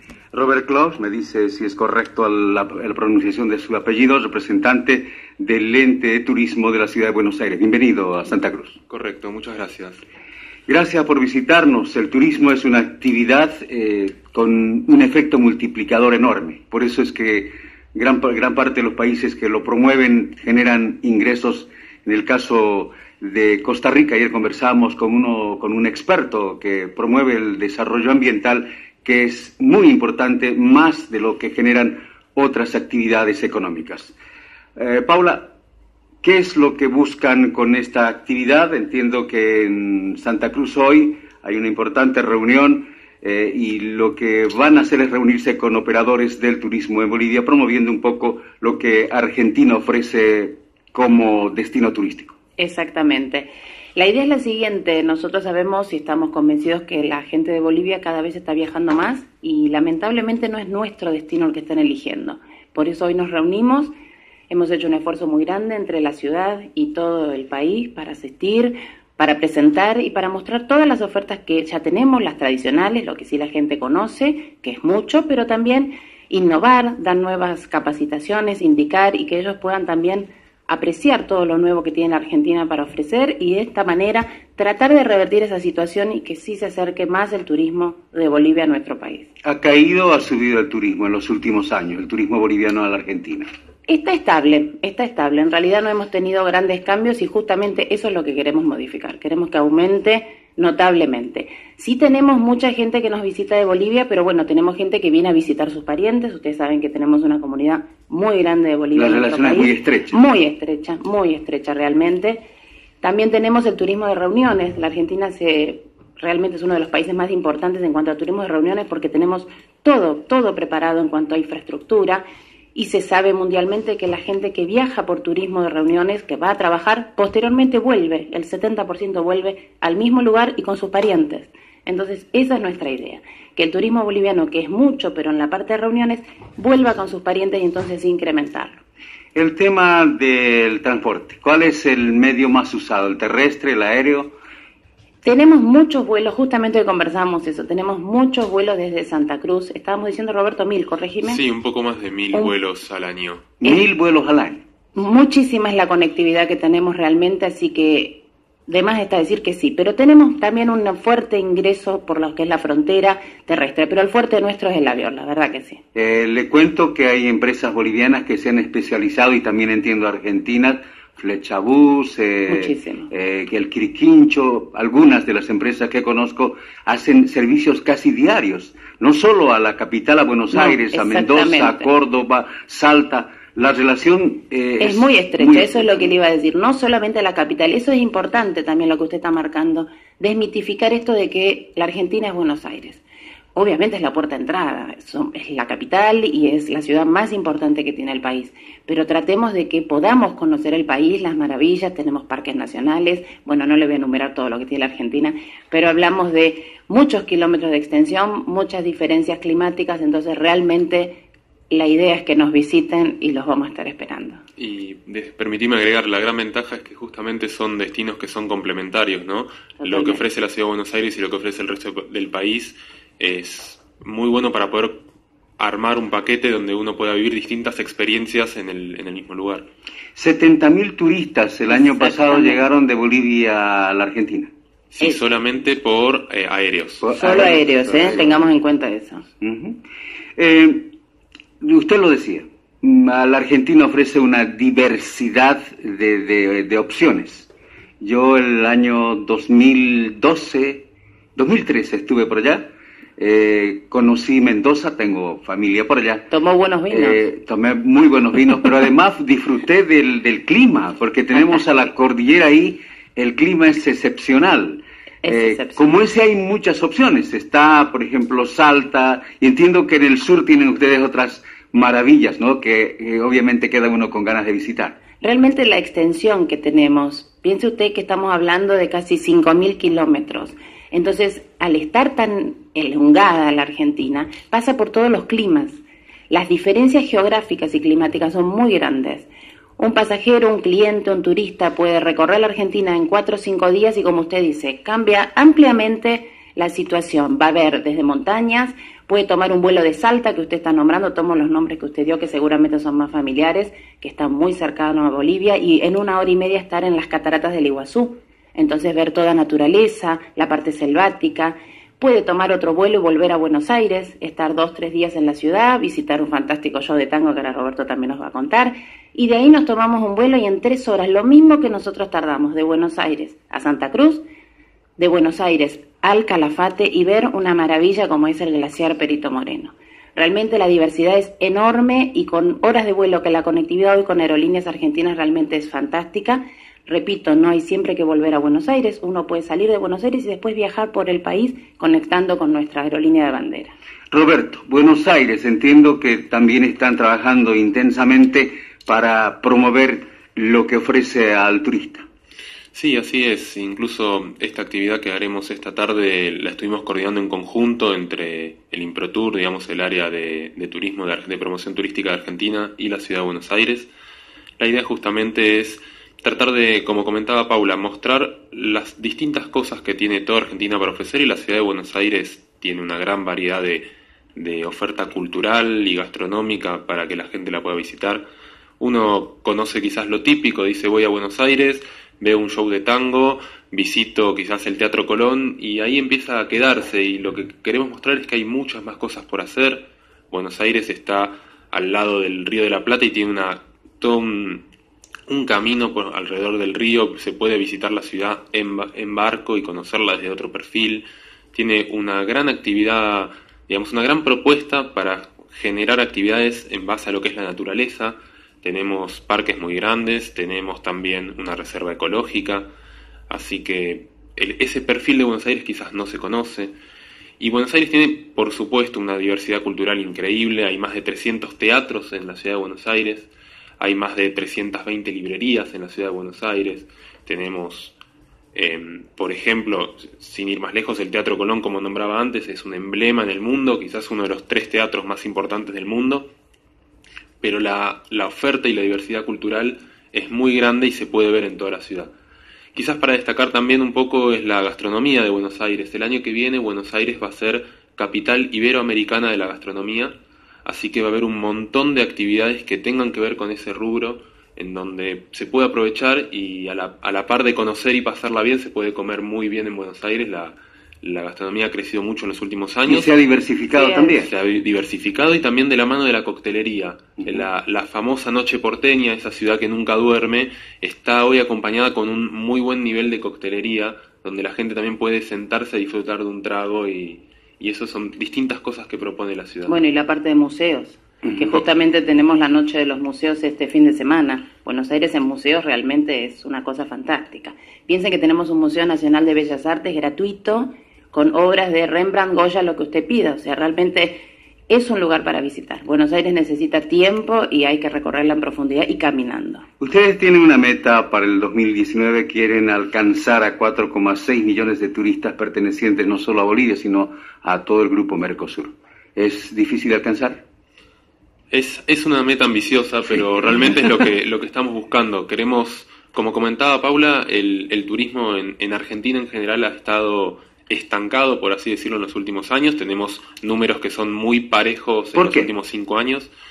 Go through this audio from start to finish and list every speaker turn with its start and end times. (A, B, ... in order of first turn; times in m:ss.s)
0:00.3-0:08.7 A
0:08.9-0:10.0 B
0:10.7-0:34.1 A
0:34.8-0:35.5 A
0:36.2-0:52.4 A
0:52.6-1:03.9 C
1:04.5-1:29.3 C
1:29.4-1:33.5 A
1:33.9-1:52.4 C
1:48.9-1:50.1 A
1:53.0-2:18.8 C
2:19.3-2:24.3 A
2:25.2-2:31.4 C
2:31.2-2:33.4 B
2:33.6-2:34.6 A
2:34.9-2:45.8 C
2:45.9-3:06.1 A
2:52.5-2:53.1 C
3:00.5-3:01.9 C
3:04.8-3:13.0 C
3:13.5-3:31.2 C
3:31.7-3:34.4 C
3:34.6-3:45.0 B
3:39.8-3:40.2 C
3:45.6-3:49.7 B
3:50.2-3:54.5 A
3:51.7-3:52.7 C
3:54.9-3:57.5 B
3:55.0-3:55.3 C
3:57.0-3:58.5 A
3:57.1-3:59.2 C
3:59.4-3:59.8 A
4:00.4-4:00.9 A
4:01.6-4:07.5 A
4:08.0-4:16.3 A
4:16.3-4:17.2 C
4:16.9-4:35.0 A
4:25.2-4:25.9 C
4:35.2-4:49.3 C
4:49.8-5:24.2 C
5:25.0-5:43.7 C
5:44.1-5:52.0 A
5:52.7-6:03.9 B
6:04.6-6:18.2 B
6:18.8-6:34.6 B
6:35.3-6:52.7 B
6:53.3-6:56.7 B
6:57.4-7:08.0 B
7:08.5-7:16.3 B
7:17.4-7:22.1 B
7:22.7-7:43.1 B
7:42.9-7:44.3 A
7:43.7-7:44.2 C
7:44.2-7:59.7 B
7:59.6-8:14.2 C
8:01.2-8:01.5 A
8:14.7-8:19.6 C
8:19.8-8:30.4 A
8:31.5-8:46.3 B
8:45.1-8:45.5 A